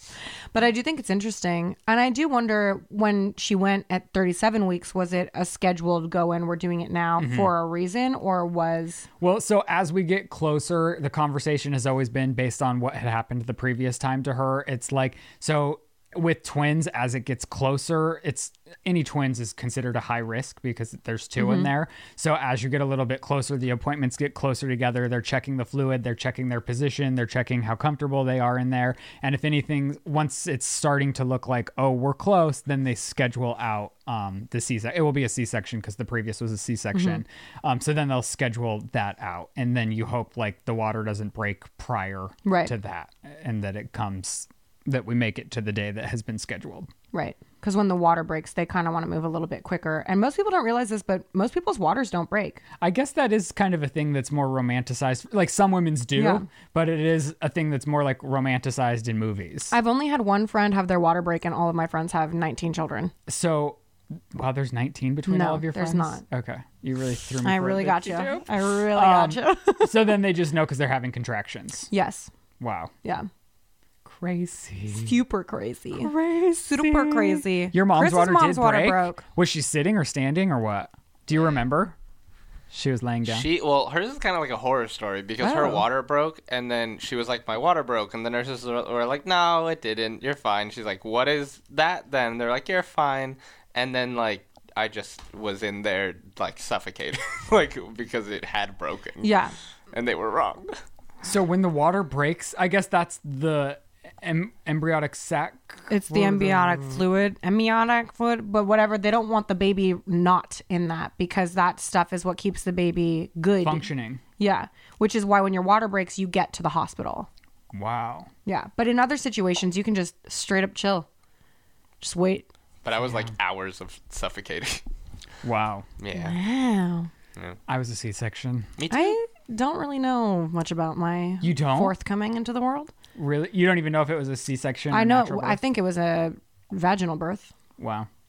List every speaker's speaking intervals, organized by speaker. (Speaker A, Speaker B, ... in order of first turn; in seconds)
Speaker A: 0.5-9.1, 21.4-21.7, 36.9-37.2, 42.4-42.7, 47.1-52.6, 56.1-56.5, 59.7-63.1, 65.2-66.2, 67.4-70.1, 71.9-72.3, 74.9-79.2, 85.4-85.8, 99.2-99.5, 105.9-113.9, 114.4-117.3, 118.5-121.1, 122.0-122.5, 126.1-127.1, 128.9-132.9, 134.9-137.5
Speaker B: 7.2-7.5, 9.2-46.9, 52.8-59.7, 63.3-63.8, 64.3-71.9, 72.6-72.9, 74.0-75.2, 75.9-82.0, 82.7-83.5, 101.2-107.0, 113.6-114.2, 117.7-118.3, 125.4-125.9, 127.7-128.7, 131.4-131.9, 133.1-135.6, 137.8-138.1
Speaker C: 83.3-99.3, 99.9-100.7, 122.8-124.8, 126.0-126.3, 128.8-129.2